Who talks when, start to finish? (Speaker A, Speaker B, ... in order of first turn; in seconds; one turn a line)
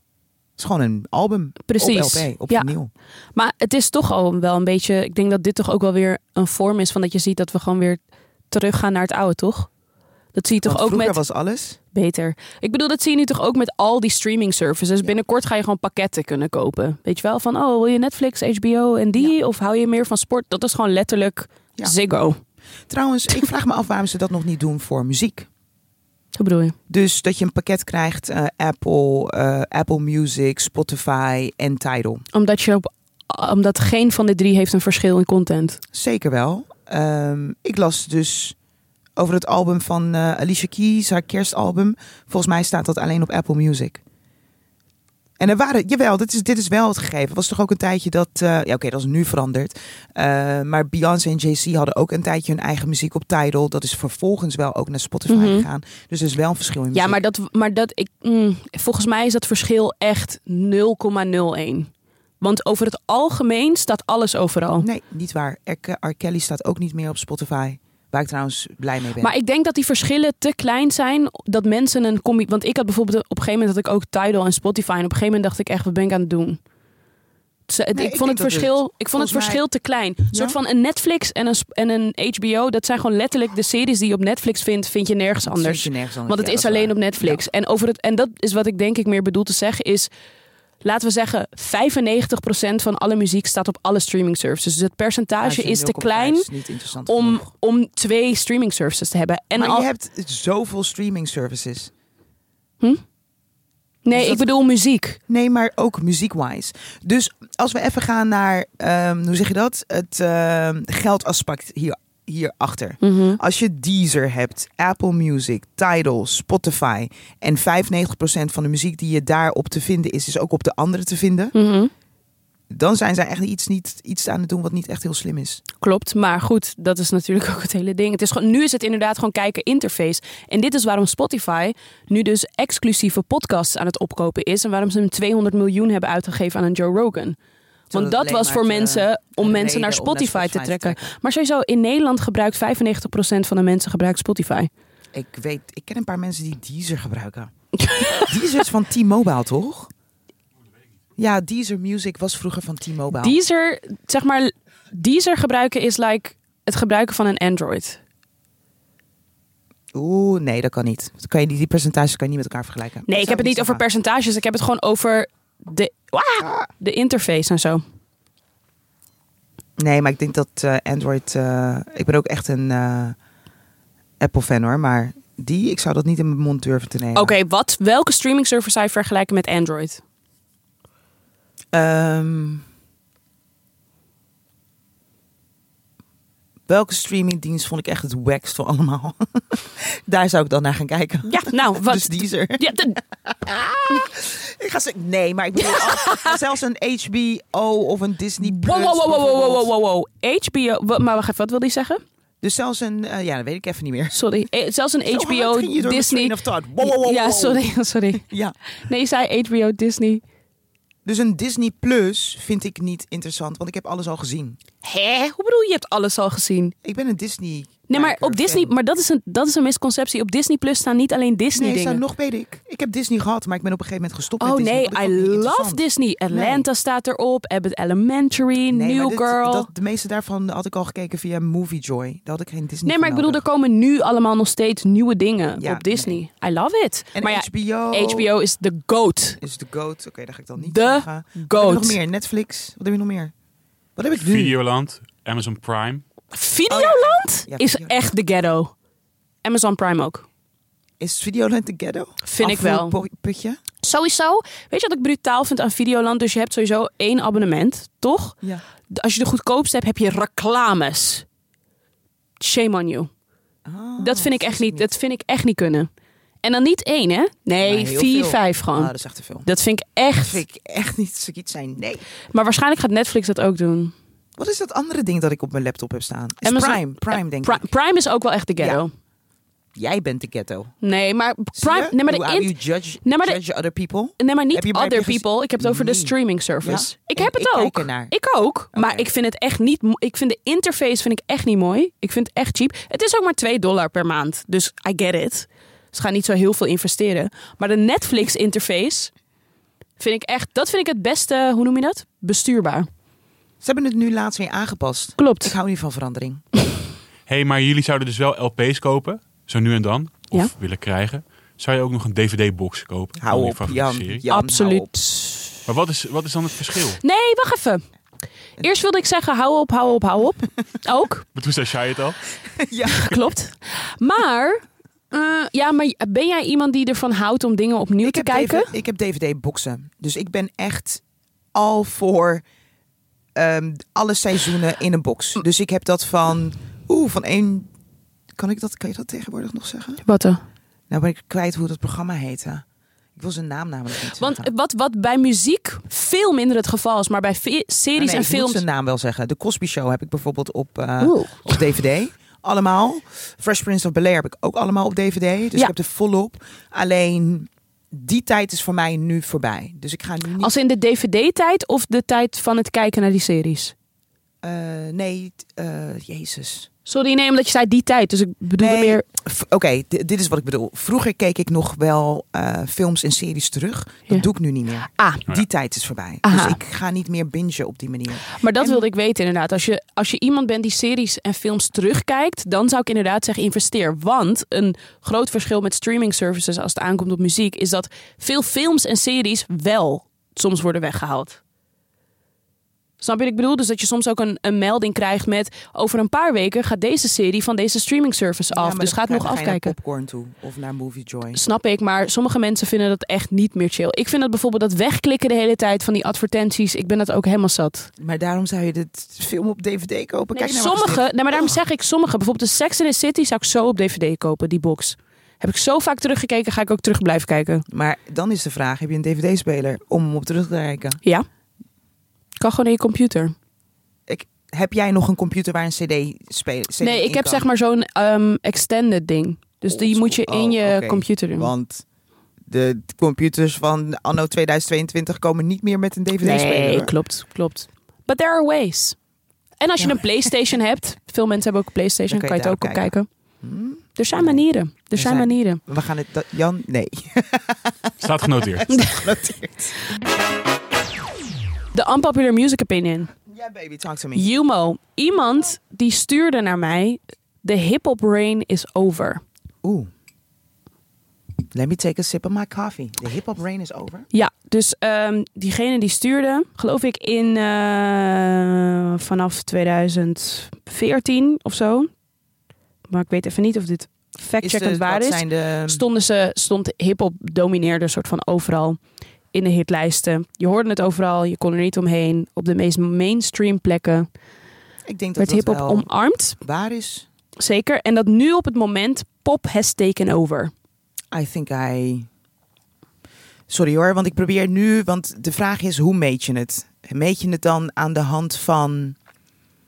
Speaker A: 0.6-2.9
Speaker B: 1.7-2.7
Speaker B: 3.4-9.7
Speaker B: 10.3-11.2
Speaker A: 10.6-11.8
Speaker B: 11.9-22.4
Speaker A: 22.9-25.5
Speaker B: 26.4-26.8
Speaker A: 26.9-32.2
Speaker B: 32.3-35.8
Speaker A: 35.9-38.6
Speaker A: 39.2-44.0
Speaker A: 45.4-57.2
Speaker B: 55.3-55.7
Speaker B: 56.9-61.9
Speaker B: 62.4-64.9
Speaker A: 64.8-69.3
Speaker B: 69.2-76.6
Speaker B: 77.7-90.1
Speaker A: 77.9-79.6
Speaker A: 80.3-80.6
Speaker A: 85.4-87.4
Speaker B: 90.8-96.5
Speaker A: 95.4-97.5
Speaker B: 97.1-99.9
Speaker A: 99.6-101.9
Speaker B: 104.0-105.2
Speaker A: 104.1-104.5
Speaker A: 105.3-121.5
Speaker B: 113.0-113.4
Speaker B: 121.5-121.9
Speaker A: 122.7-125.6
Speaker B: 125.8-137.4
Speaker A: 137.9-141.2
Speaker B: 137.9-144.7
Speaker A: 145.1-147.5
Speaker B: 147.8-148.3
Speaker A: 148.2-149.9
Speaker A: 151.2-153.4
Speaker B: 153.2-158.0
Speaker A: 159.9-163.8
Speaker B: 163.1-167.8
Speaker A: 166.4-166.7
Speaker A: 169.8-173.2
Speaker A: 174.2-177.3
Speaker B: 177.2-180.0
Speaker A: 181.7-182.6
Speaker A: 186.7-199.7
Speaker B: 191.3-193.0
Speaker B: 195.6-196.4
Speaker B: 198.4-202.0
Speaker A: 202.4-204.2
Speaker B: 204.1-208.2
Speaker A: 205.1-207.6
Speaker A: 208.2-208.6
Speaker B: 208.8-210.2
Speaker A: 211.1-214.6
Speaker B: 214.8-216.7
Speaker A: 216.8-218.7
Speaker B: 217.9-222.0
Speaker A: 221.6-226.7
Speaker B: 224.4-229.7
Speaker A: 228.7-233.4
Speaker B: 232.8-239.4
Speaker A: 235.6-236.2
Speaker A: 237.1-238.3
Speaker A: 239.4-243.3
Speaker B: 240.6-242.0
Speaker A: 244.0-244.6
Speaker C: 244.2-246.0
Speaker B: 246.3-248.7
Speaker A: 246.7-248.1
Speaker B: 249.4-250.3
Speaker A: 251.0-253.6
Speaker B: 252.2-253.0
Speaker B: 253.8-258.4
Speaker B: 258.9-261.2
Speaker B: 262.4-263.1
Speaker A: 263.6-264.9
Speaker B: 264.0-265.9
Speaker B: 266.4-268.9
Speaker A: 267.6-269.5
Speaker B: 269.4-270.4
Speaker A: 270.2-272.1
Speaker B: 272.3-273.9
Speaker A: 274.4-277.7
Speaker B: 276.4-278.9
Speaker A: 278.6-278.8
Speaker A: 279.8-280.7
Speaker B: 280.8-282.5
Speaker A: 281.6-288.1
Speaker B: 283.1-283.4
Speaker B: 284.2-299.1
Speaker A: 288.7-289.1
Speaker B: 300.0-302.9
Speaker A: 303.6-306.4
Speaker B: 305.2-305.5
Speaker C: 307.3-314.2
Speaker A: 313.2-314.9
Speaker B: 314.3-315.6
Speaker C: 315.7-317.0
Speaker B: 317.0-317.8
Speaker B: 318.6-321.2
Speaker C: 321.4-322.2
Speaker A: 322.6-323.2
Speaker B: 322.9-328.7
Speaker A: 328.0-331.0
Speaker A: 331.5-332.4
Speaker A: 333.4-337.7
Speaker A: 338.4-340.0
Speaker B: 340.0-340.4
Speaker A: 340.9-342.6
Speaker A: 343.2-344.5
Speaker B: 344.2-348.6
Speaker A: 348.0-360.6
Speaker B: 351.0-351.5
Speaker B: 360.4-363.7
Speaker A: 364.4-366.7
Speaker B: 366.9-369.1
Speaker A: 368.6-378.8
Speaker B: 374.9-375.2
Speaker B: 376.2-376.6
Speaker B: 378.3-391.4
Speaker B: 393.0-399.8
Speaker A: 398.5-401.4
Speaker B: 401.3-407.9
Speaker A: 408.0-411.5
Speaker B: 410.4-417.6
Speaker A: 417.7-421.0
Speaker B: 422.4-423.4
Speaker A: 424.1-427.5
Speaker B: 426.8-431.5
Speaker A: 429.7-431.8
Speaker A: 432.5-436.9
Speaker B: 436.2-439.0
Speaker B: 439.6-443.1
Speaker A: 439.8-440.3
Speaker A: 442.1-442.9
Speaker A: 443.4-444.4
Speaker B: 444.0-445.6
Speaker A: 444.9-449.8
Speaker C: 448.0-448.7
Speaker B: 448.7-449.0
Speaker B: 451.7-453.1
Speaker A: 453.3-454.3
Speaker B: 454.1-459.2
Speaker A: 459.6-459.9
Speaker A: 461.5-464.1
Speaker B: 464.1-471.9
Speaker B: 472.9-478.8
Speaker A: 474.4-475.9
Speaker B: 479.3-484.1
Speaker A: 484.9-487.1
Speaker B: 485.2-486.4
Speaker B: 487.4-490.5
Speaker A: 491.1-492.1
Speaker A: 493.5-499.0